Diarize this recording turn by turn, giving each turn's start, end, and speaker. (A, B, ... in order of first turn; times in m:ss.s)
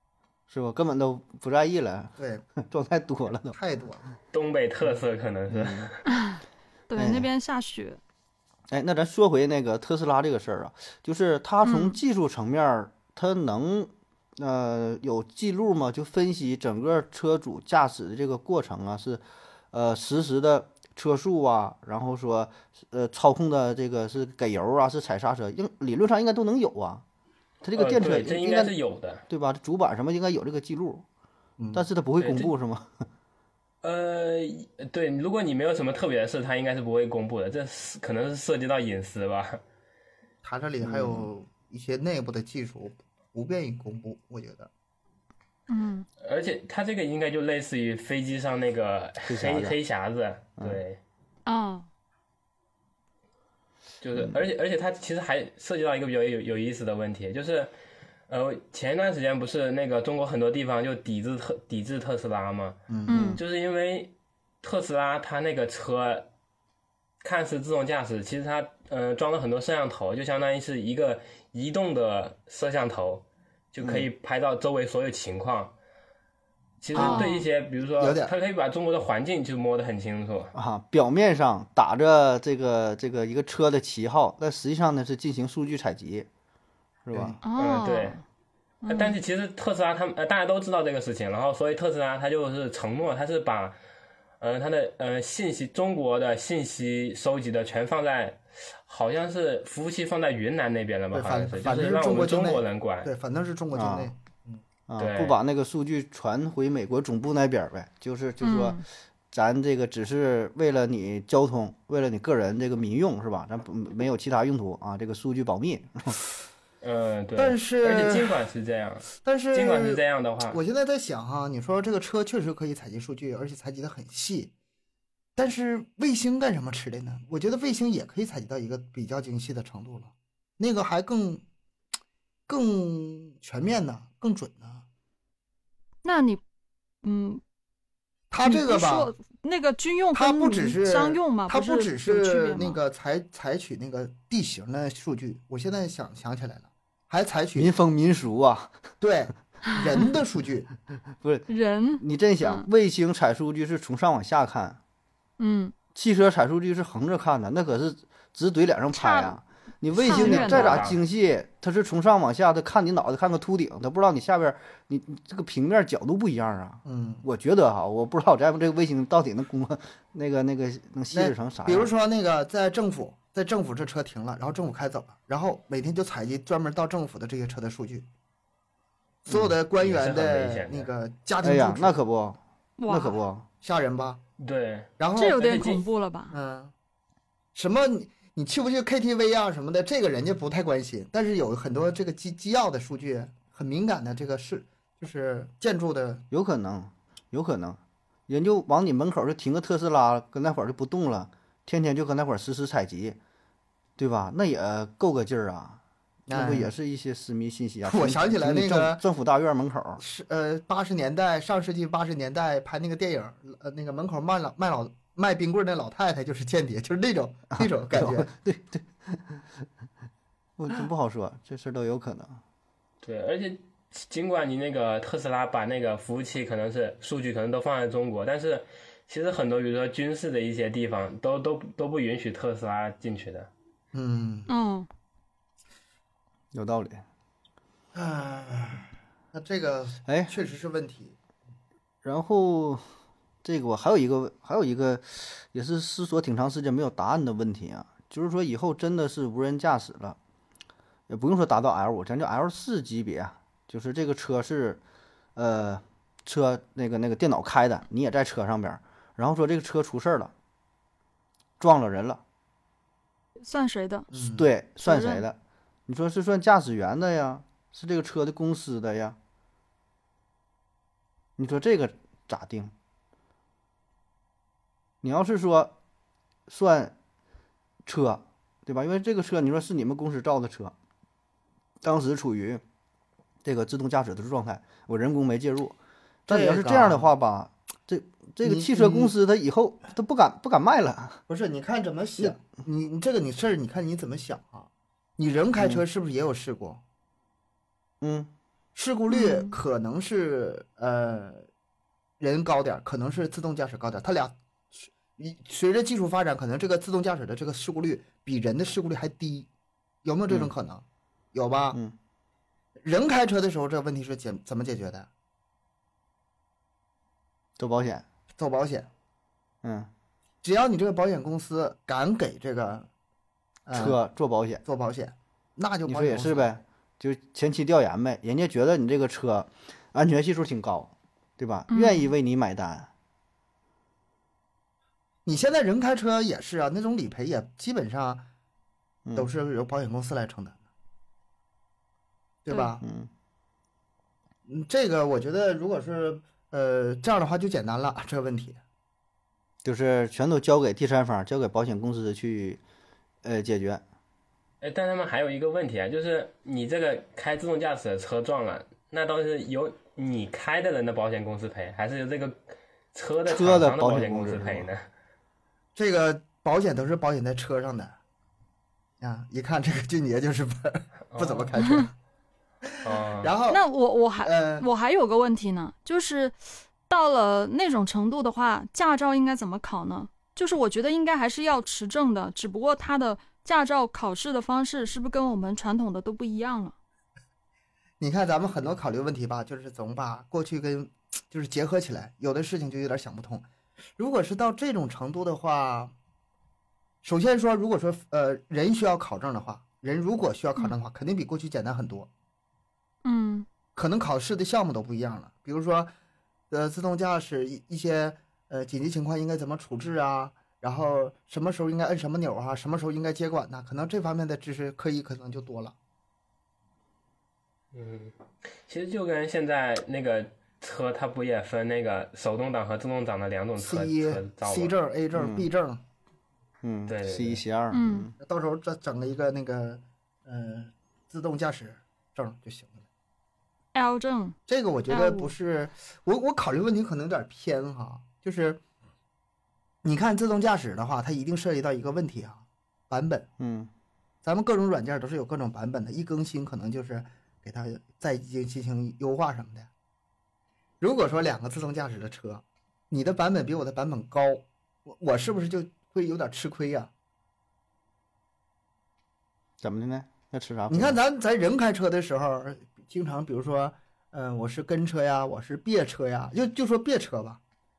0:00.5-0:03.6 A
0:02.2-0:02.4 B
0:03.5-0:04.0 B
0:04.3-0:06.0 C
0:05.5-0:05.9 A
0:06.1-0:08.0 D
0:07.0-0:07.3 A
0:08.7-0:27.0 A
0:11.6-0:12.0 D
0:27.6-0:28.7 A
0:27.7-0:29.2 C
0:29.3-0:31.0 A
0:31.6-0:31.8 B
0:31.7-0:32.9 A
0:32.2-0:32.5 C
0:33.8-0:39.6 C
0:40.4-0:44.7 B
0:40.8-0:41.3 A
0:45.7-0:46.0 D
0:46.2-0:51.0 C
0:49.2-0:49.8 A
0:51.4-0:51.9 D
0:54.0-0:57.7 C
0:58.3-1:02.8 C
1:02.9-1:03.3 B
1:03.1-1:03.4 D
1:03.3-1:06.3 C
1:07.2-1:15.7 C
1:13.8-1:14.1 A
1:16.8-1:20.5 C
1:16.9-1:17.3 B
1:16.9-1:17.5 D
1:18.0-1:18.3 B
1:20.6-1:26.3 A
1:27.0-1:27.4 A
1:27.1-1:27.4 B
1:27.4-1:28.2 D
1:27.6-1:28.2 C
1:28.8-1:29.2 D
1:28.9-1:33.8 C
1:34.4-1:43.1 C
1:41.1-1:44.6 B
1:43.7-1:44.1 A
1:44.9-1:56.2 A
1:45.0-1:45.4 C
1:48.4-1:48.8 D
1:56.8-2:00.6 C
1:57.4-1:58.4 B
1:59.2-2:04.5 B
2:05.4-2:11.4 B
2:12.5-2:14.8 B
2:16.0-2:16.4 D
2:17.0-2:17.4 D
2:18.3-2:19.1 B
2:18.4-2:22.8 D
2:20.1-2:27.7 B
2:27.6-2:28.7 A
2:29.0-2:30.7 B
2:31.2-2:31.4 A
2:31.5-2:32.7 D
2:32.0-2:34.8 A
2:35.4-2:35.7 D
2:35.9-2:51.9 A
2:38.9-2:39.4 D
2:40.0-2:40.8 D
2:40.0-2:41.0 C
2:46.8-2:47.2 B
2:51.1-2:58.1 B
2:59.2-3:02.0 B
2:59.8-3:00.9 C
3:01.4-3:03.4 A
3:02.8-3:03.2 D
3:03.6-3:04.2 B
3:04.4-3:05.8 C
3:05.0-3:05.4 B
3:05.2-3:06.3 D
3:06.3-3:06.7 B
3:07.6-3:16.2 B
3:16.3-3:23.2 A
3:24.0-3:30.0 A
3:26.3-3:26.7 B
3:27.8-3:29.0 B
3:30.0-3:38.3 B
3:37.6-3:39.5 A
3:40.6-3:42.4 A
3:43.0-3:53.5 C
3:53.9-3:54.5 B
3:54.5-3:54.9 D
3:56.5-3:57.0 A
3:57.9-4:01.1 B
4:00.0-4:00.3 A
4:02.0-4:02.8 A
4:03.4-4:10.2 A
4:11.1-4:14.8 A
4:15.4-4:20.3 A
4:21.6-4:22.2 A
4:23.4-4:24.1 D
4:24.1-4:24.5 B
4:24.1-4:25.4 A
4:24.8-4:25.2 D
4:25.9-4:29.2 A
4:31.4-4:32.7 A
4:35.0-4:35.7 A
4:36.5-4:36.9 A
4:37.9-4:40.7 A
4:41.8-4:42.6 A
4:43.4-4:45.8 A
4:46.3-4:51.2 A
4:46.3-4:47.1 B
4:48.4-4:49.1 B
4:51.3-4:56.8 B
4:55.6-4:55.8 A
4:58.0-4:58.3 A
4:58.8-5:01.4 B
4:59.1-4:59.5 D
5:02.2-5:09.5 B
5:10.0-5:11.8 B
5:12.8-5:15.1 B
5:17.6-5:18.0 A
5:18.4-5:18.9 B
5:19.6-5:19.9 A
5:20.4-5:22.9 B
5:23.6-5:24.0 B
5:23.7-5:24.6 A
5:24.6-5:26.6 B
5:25.8-5:32.9 A
5:31.7-5:32.1 D
5:35.2-5:38.2 B
5:39.2-5:40.6 B
5:42.4-5:42.8 B
5:42.8-5:43.1 A
5:44.5-5:48.6 B
5:49.6-5:52.6 A
5:53.2-5:53.8 A
5:54.6-6:02.4 C
6:02.9-6:04.8 C
6:03.2-6:04.7 A
6:05.8-6:08.0 B
6:09.0-6:11.9 B
6:11.1-6:11.5 C
6:12.8-6:13.3 C
6:13.2-6:13.6 B
6:13.5-6:26.7 D
6:14.2-6:14.6 B
6:28.0-6:33.4 B
6:34.0-6:35.9 B
6:37.0-6:42.1 B
6:43.0-6:43.4 D
6:43.8-6:45.9 B
6:46.5-6:55.7 B
6:57.7-7:04.7 C
7:03.6-7:05.8 B
7:05.1-7:05.5 A
7:06.6-7:08.1 A
7:06.9-7:07.4 C
7:07.7-7:08.1 D
7:08.2-7:12.8 B
7:13.7-7:14.4 D
7:14.5-7:18.6 B
7:14.9-7:15.3 D
7:19.8-7:23.3 B
7:23.4-7:23.7 A
7:24.2-7:29.7 B
7:30.8-7:36.9 B
7:39.6-7:41.0 A
7:40.7-7:47.4 B